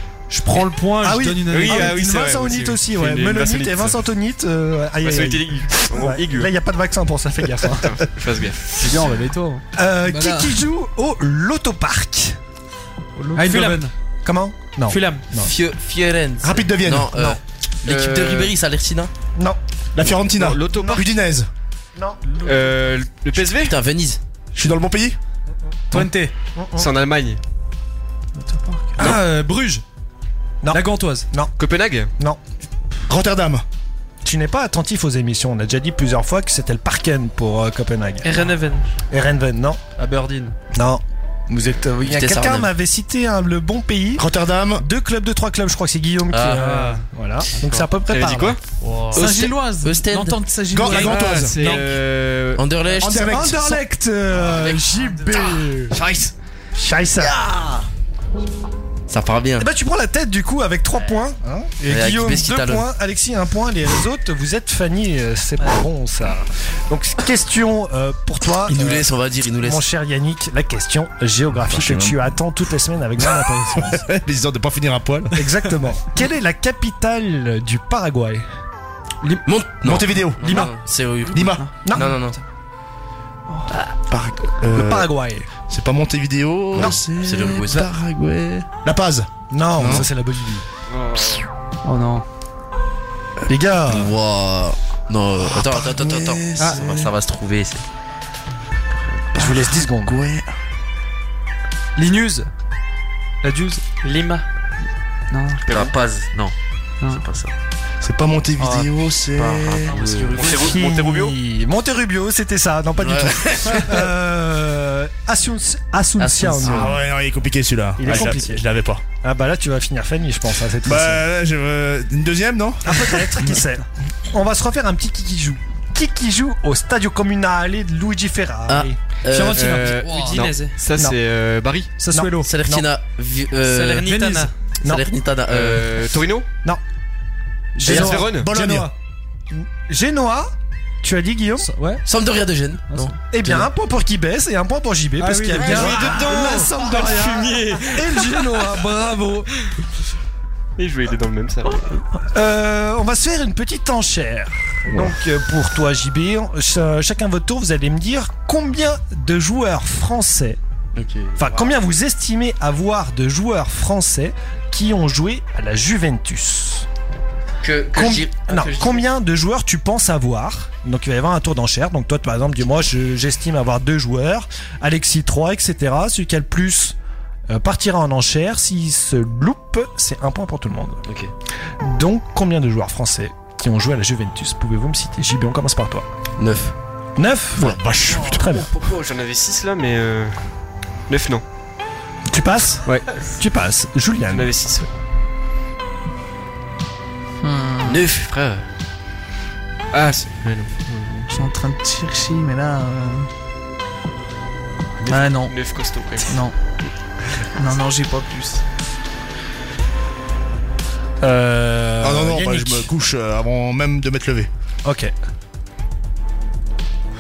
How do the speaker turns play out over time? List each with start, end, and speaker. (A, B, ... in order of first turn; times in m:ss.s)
0:00.3-0:02.0 A
0:01.0-0:08.0 B
0:01.5-0:04.0 C
0:05.0-0:06.5 C
0:07.6-0:08.8 C
0:08.8-0:09.6 A
0:09.8-0:12.4 B
0:10.1-0:10.6 D
0:13.4-0:13.9 A
0:13.5-0:13.8 E
0:14.2-0:15.5 B
0:14.9-0:15.2 E
0:15.3-0:19.1 F
0:16.4-0:17.1 G
0:17.1-0:17.4 B
0:17.8-0:18.5 C
0:19.9-0:21.5 G
0:20.3-0:21.1 C
0:20.7-0:21.0 B
0:22.0-0:22.7 B
0:22.4-0:23.7 C
0:23.5-0:24.2 F
0:24.5-0:25.2 G
0:25.9-0:26.3 A
0:26.6-0:26.9 B
0:26.8-0:27.4 C
0:29.0-0:29.8 A
0:30.6-0:31.5 B
0:30.7-0:31.3 A
0:31.6-0:32.1 C
0:33.1-0:33.6 G
0:34.2-0:38.3 B
0:38.2-0:38.9 E
0:39.1-0:39.8 B
0:40.0-0:40.6 A
0:40.7-0:48.6 B
0:42.0-0:42.7 F
0:44.2-0:44.9 G
0:46.3-0:47.0 F
0:47.6-0:48.6 C
0:49.1-0:50.4 F
0:49.1-0:51.4 D
0:50.7-0:51.6 G
0:50.8-0:52.7 C
0:51.6-0:51.9 B
0:52.6-0:53.7 F
0:53.0-0:53.8 G
0:53.3-0:56.0 B
0:54.4-0:56.3 F
0:56.8-0:57.5 B
0:57.5-0:57.8 F
0:59.1-0:59.7 F
0:59.6-1:09.1 B
1:01.8-1:02.9 F
1:08.7-1:09.9 F
1:09.6-1:14.0 B
1:11.7-1:12.3 G
1:13.2-1:15.5 G
1:15.3-1:18.5 B
1:19.4-1:22.4 F
1:19.8-1:20.6 G
1:20.4-1:20.7 B
1:21.3-1:21.6 G
1:21.8-1:22.2 B
1:23.9-1:25.1 G
1:24.7-1:25.5 B
1:25.7-1:30.1 G
1:26.8-1:27.9 F
1:29.5-1:30.6 B
1:30.9-1:31.4 C
1:31.8-1:32.2 A
1:33.5-1:34.2 B
1:33.9-1:37.8 F
1:35.4-1:37.1 G
1:39.3-1:40.2 B
1:39.4-1:40.5 G
1:42.0-1:42.5 A
1:43.4-1:43.8 A
1:44.0-1:44.4 E
1:45.3-1:45.6 D
1:45.7-1:46.0 C
1:45.7-1:47.5 F
1:48.0-1:50.0 G
1:49.3-1:50.6 F
1:50.3-1:51.4 C
1:50.4-1:57.0 B
1:53.0-1:54.0 F
1:56.2-1:57.0 F
1:56.6-1:59.0 G
1:58.0-1:58.6 B
1:59.2-2:01.2 B
2:00.8-2:03.6 G
2:02.8-2:09.0 B
2:08.7-2:09.9 F
2:09.3-2:10.0 A
2:09.5-2:11.9 C
2:10.0-2:10.8 E
2:12.0-2:12.5 A
2:12.1-2:12.9 B
2:12.4-2:14.2 F
2:13.6-2:14.5 E
2:14.1-2:14.5 A
2:14.8-2:15.9 F
2:15.5-2:16.5 C
2:17.8-2:18.8 B
2:17.9-2:18.5 C
2:17.9-2:18.2 F
2:17.9-2:18.9 G
2:18.5-2:18.9 A
2:19.5-2:21.7 B
2:21.6-2:22.0 A
2:22.0-2:23.7 F
2:22.9-2:23.1 A
2:23.3-2:29.5 B
2:25.2-2:26.3 A
2:25.5-2:28.7 C
2:30.8-2:31.9 C
2:32.3-2:40.6 B
2:34.9-2:35.2 G
2:41.0-2:41.8 F
2:41.4-2:46.9 B
2:47.6-2:49.1 F
2:47.9-2:57.0 B
2:57.5-3:01.0 B
3:01.1-3:01.3 F
3:01.8-3:06.1 B
3:06.4-3:06.7 F
3:07.2-3:08.7 B
3:07.6-3:08.5 G
3:08.3-3:10.4 C
3:11.1-3:11.4 C
3:12.3-3:14.5 B
3:12.8-3:13.1 C
3:14.3-3:14.9 C
3:17.4-3:18.0 D
3:17.8-3:18.7 C
3:19.9-3:21.3 C
3:21.3-3:23.3 D
3:25.0-3:26.3 C
3:25.0-3:25.6 D
3:26.3-3:26.6 D
3:27.6-3:28.6 D
3:31.2-3:32.9 B
3:32.0-3:34.5 G
3:34.8-3:35.1 B